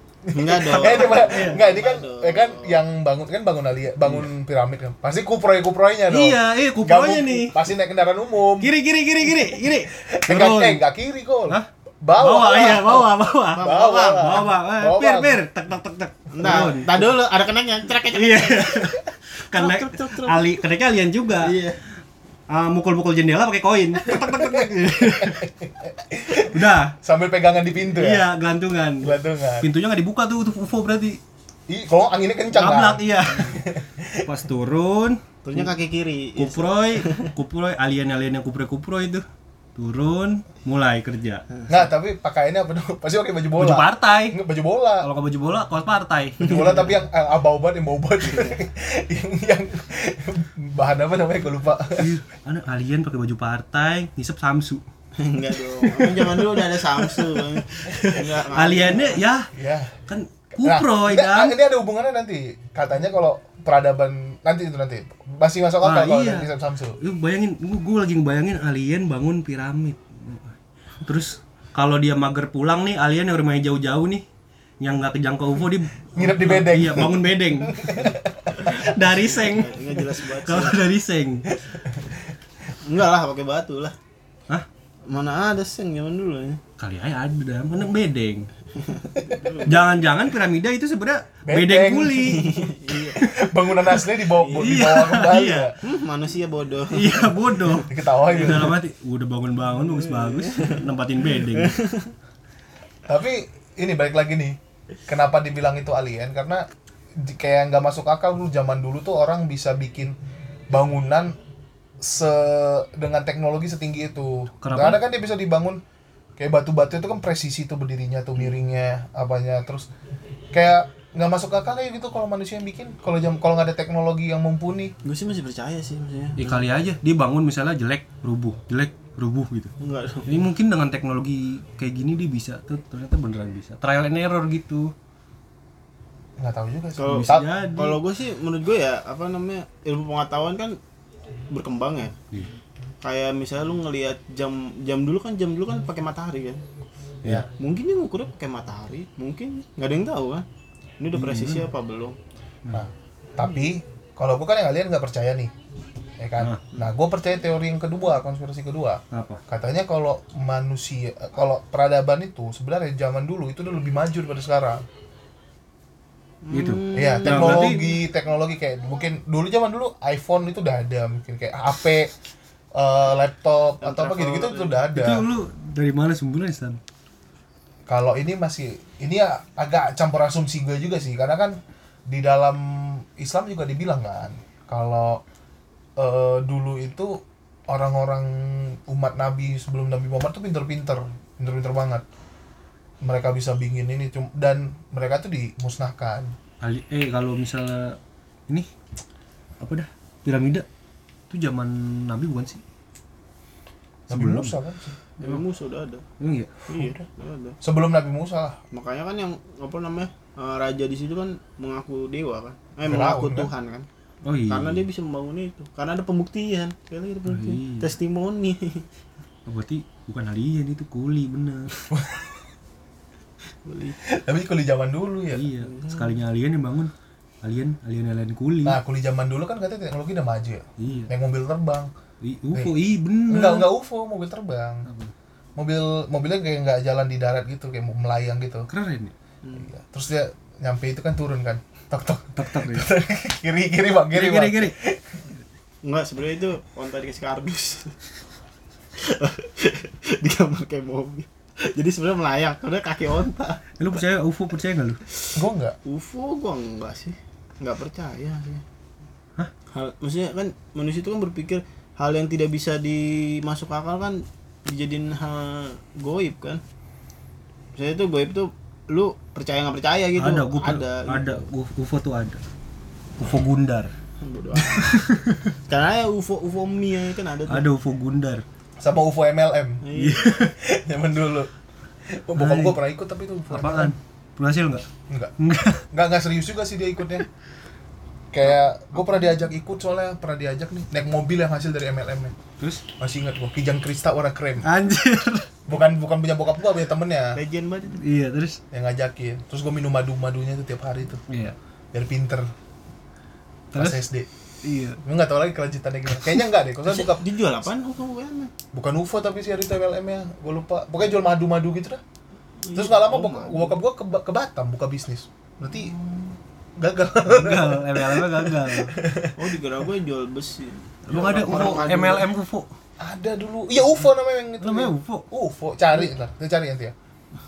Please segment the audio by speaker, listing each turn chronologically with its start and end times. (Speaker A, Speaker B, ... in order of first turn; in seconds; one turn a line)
Speaker A: 0.2-8.7
Speaker B: 0.3-2.8
Speaker C: 0.6-1.6
Speaker C: 4.0-4.3
Speaker C: 6.1-7.6
Speaker C: 8.6-10.8
Speaker A: 9.4-15.4
Speaker C: 12.2-17.1
Speaker B: 13.5-14.4
Speaker B: 16.3-18.9
Speaker C: 18.1-21.6
Speaker B: 19.5-20.6
Speaker B: 21.4-21.8
Speaker C: 22.5-25.5
Speaker A: 24.2-28.3
Speaker C: 26.3-26.9
Speaker C: 27.9-31.2
Speaker A: 29.0-29.7
Speaker A: 31.7-34.3
Speaker C: 32.5-33.6
Speaker C: 34.2-35.7
Speaker B: 35.4-37.3
Speaker C: 36.4-39.2
Speaker C: 39.8-41.4
Speaker B: 41.5-41.9
Speaker A: 41.7-45.1
Speaker C: 43.6-44.4
Speaker C: 45.0-46.9
Speaker A: 46.5-52.1
Speaker B: 46.5-46.9
Speaker B: 48.2-48.6
Speaker C: 52.0-54.8
Speaker B: 55.2-59.2
Speaker C: 58.5-59.5
Speaker A: 59.5-60.0
Speaker C: 60.1-61.5
Speaker A: 60.6-67.0
Speaker C: 65.8-66.5
Speaker C: 67.0-74.2
Speaker C: 74.8-78.0
Speaker A: 76.1-78.7
Speaker B: 78.6-80.9
Speaker C: 78.6-81.5
Speaker A: 81.7-82.1
Speaker B: 82.8-84.0
Speaker B: 85.1-86.6
Speaker C: 86.8-88.5
Speaker B: 88.8-90.1
Speaker C: 89.7-92.6
Speaker A: 91.5-92.4
Speaker B: 92.3-93.2
Speaker A: 93.1-95.7
Speaker B: 94.3-94.7
Speaker C: 94.5-95.8
Speaker B: 95.8-98.7
Speaker C: 96.9-101.8
Speaker A: 97.9-98.8
Speaker B: 99.8-100.8
Speaker B: 101.5-102.1
Speaker A: 103.1-106.7
Speaker A: 107.2-110.2
Speaker A: 110.7-111.4
Speaker A: 112.0-115.8
Speaker C: 114.6-115.0
Speaker A: 116.4-119.9
Speaker A: 120.5-124.9
Speaker B: 125.0-126.6
Speaker C: 126.4-129.7
Speaker B: 129.8-130.4
Speaker C: 130.2-134.9
Speaker A: 136.4-137.5
Speaker B: 137.0-140.8
Speaker C: 137.1-138.0
Speaker B: 141.5-142.2
Speaker B: 143.0-146.6
Speaker B: 147.6-150.4
Speaker B: 151.0-152.2
Speaker C: 151.1-151.7
Speaker A: 152.7-155.5
Speaker A: 156.2-164.9
Speaker C: 159.1-159.4
Speaker B: 166.4-168.0
Speaker C: 166.5-167.8
Speaker A: 166.9-172.1
Speaker A: 172.7-175.3
Speaker B: 173.8-174.8
Speaker C: 174.9-176.8
Speaker A: 177.9-185.2
Speaker A: 186.0-192.0
Speaker A: 193.0-196.3
Speaker C: 196.6-198.0
Speaker C: 199.6-200.7
Speaker C: 201.3-202.6
Speaker C: 204.1-204.6
Speaker A: 204.1-204.9
Speaker B: 205.2-206.0
Speaker C: 206.2-206.5
Speaker B: 206.7-207.6
Speaker A: 206.7-207.0
Speaker A: 207.6-208.6
Speaker B: 208.7-213.9
Speaker A: 212.8-213.5
Speaker C: 214.2-214.8
Speaker B: 214.5-218.9
Speaker C: 217.2-217.9
Speaker C: 219.4-221.7
Speaker A: 221.9-222.2
Speaker B: 223.6-224.0
Speaker A: 224.0-225.5
Speaker C: 225.3-228.8
Speaker B: 225.6-226.2
Speaker A: 228.6-231.9
Speaker C: 230.8-231.1
Speaker C: 232.2-233.7
Speaker A: 233.3-234.9
Speaker C: 234.9-235.1
Speaker A: 235.6-238.7
Speaker C: 238.7-239.1
Speaker B: 239.4-239.7
Speaker A: 239.6-245.2
Speaker C: 242.3-242.9
Speaker C: 244.1-244.7
Speaker B: 245.8-248.0
Speaker B: 248.9-253.6
Speaker C: 253.8-255.0
Speaker A: 255.3-255.8
Speaker B: 255.9-258.6
Speaker B: 259.7-266.6
Speaker B: 267.8-271.4
Speaker C: 270.2-272.4
Speaker C: 273.2-273.9
Speaker B: 274.2-275.0
Speaker C: 274.9-275.4
Speaker B: 275.7-277.7
Speaker C: 277.5-278.4
Speaker A: 278.8-279.8
Speaker B: 279.8-280.4
Speaker C: 279.9-280.5
Speaker A: 280.6-281.5
Speaker A: 282.1-283.9
Speaker C: 282.4-282.8
Speaker C: 283.5-284.9
Speaker A: 285.1-285.4
Speaker C: 285.4-285.8
Speaker A: 285.9-287.3
Speaker A: 288.3-292.4
Speaker A: 293.0-294.7
Speaker C: 294.6-295.5
Speaker A: 295.7-297.4
Speaker B: 297.3-298.0
Speaker C: 298.0-298.6
Speaker A: 298.7-301.2
Speaker C: 301.3-301.6
Speaker A: 301.9-302.5
Speaker C: 303.7-304.0
Speaker A: 303.8-304.3
Speaker C: 304.6-305.0
Speaker A: 305.0-307.2
Speaker B: 306.9-308.5
Speaker A: 308.7-312.0
Speaker B: 312.6-313.8
Speaker A: 312.7-315.9
Speaker B: 315.9-316.3
Speaker A: 316.8-319.4
Speaker C: 317.3-319.0
Speaker B: 319.4-322.3
Speaker C: 321.1-322.7
Speaker A: 323.0-326.9
Speaker C: 324.6-325.2